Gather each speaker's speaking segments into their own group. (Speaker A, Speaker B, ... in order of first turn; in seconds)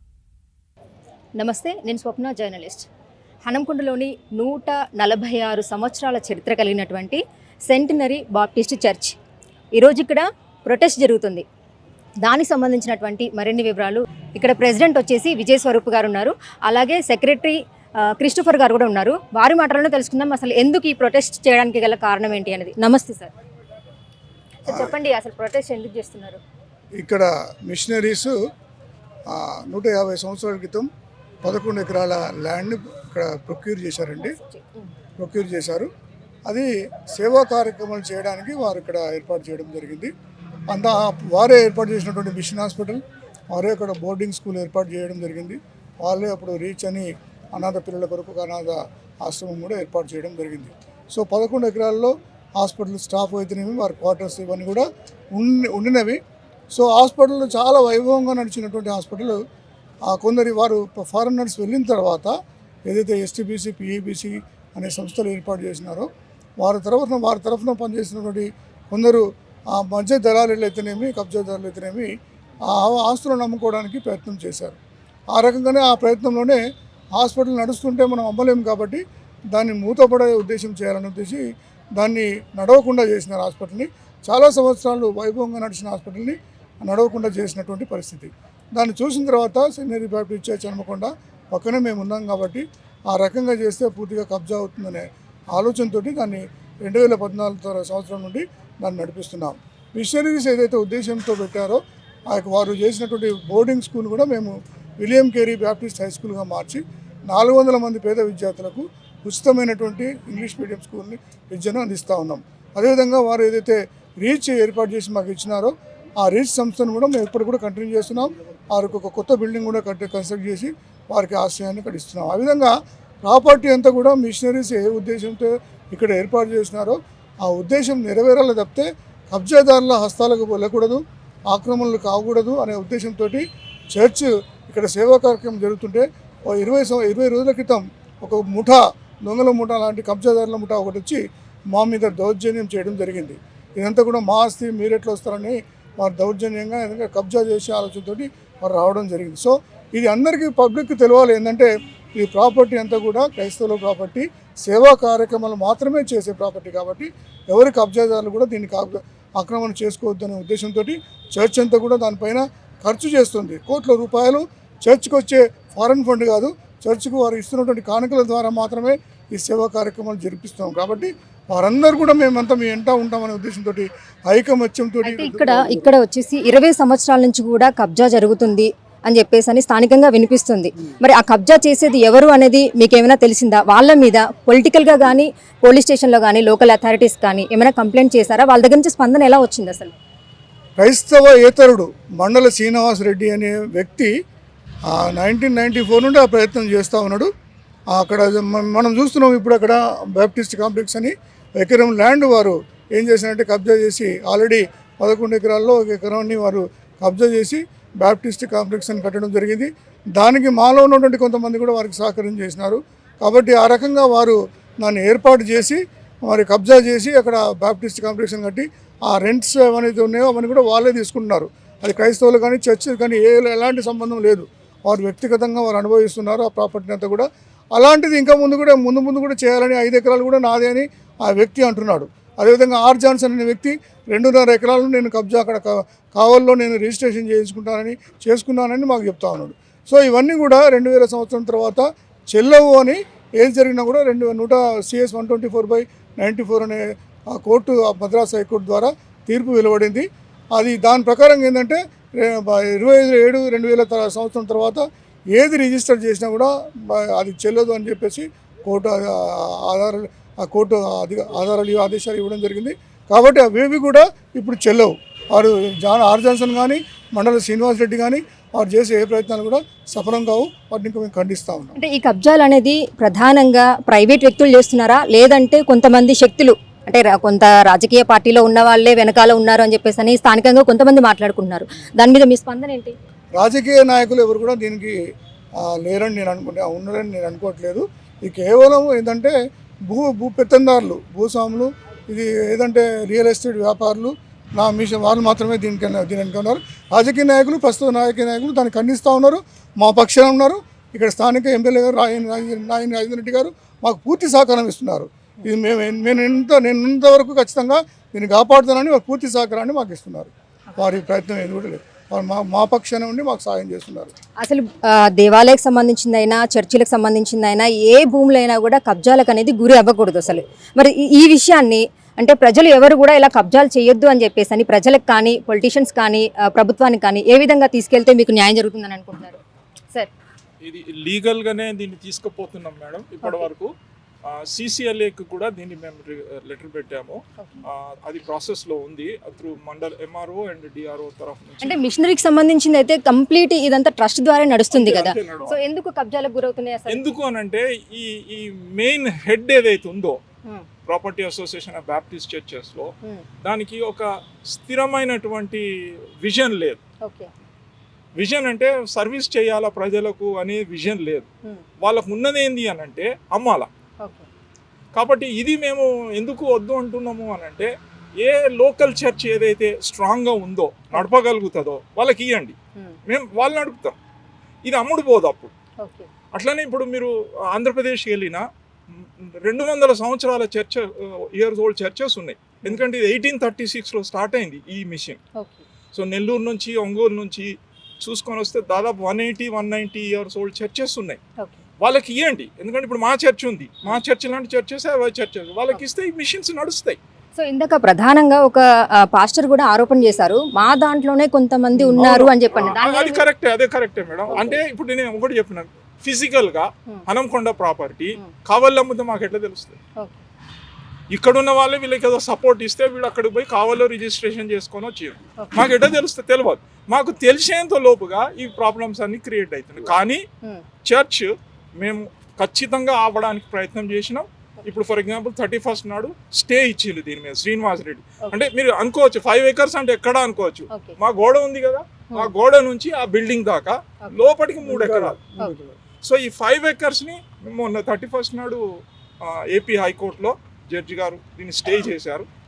Speaker A: 1.4-2.9, 3.4-9.2, 9.8-11.4, 12.2-23.3, 24.7-26.4, 34.2-34.9, 175.0-189.9, 271.8-282.9, 314.4-329.4, 341.6-347.0, 357.0-357.3, 364.0-364.3, 375.8-376.1, 385.4-385.6, 397.4-403.2, 430.7-430.9
Speaker B: 24.7-24.9, 27.0-28.3, 29.3-30.9, 31.4-34.4, 35.2-35.9, 36.5-40.1, 40.7-56.2, 56.7-59.4, 60.1-62.3, 62.9-66.1, 66.6-72.1, 72.7-74.8, 75.3-76.6, 77.1-79.0, 79.5-81.4, 82.0-141.2, 141.7-175.9, 190.8-194.1, 194.9-197.3, 197.9-271.8, 283.4-284.9, 285.7-289.3, 289.9-314.1, 401.8-402.2, 434.6-435.7
Speaker C: 330.6-333.7, 334.2-341.8, 344.7-345.6, 346.9-350.2, 350.9-352.9, 353.4-355.6, 356.2-356.8, 358.2-361.3, 361.8-363.7, 364.9-367.7, 368.2-374.0, 374.6-375.5, 376.3-385.2, 385.9-391.2, 391.8-397.0, 401.9-409.8, 411.1-420.2, 420.9-435.2, 436.0-438.6, 439.2-442.3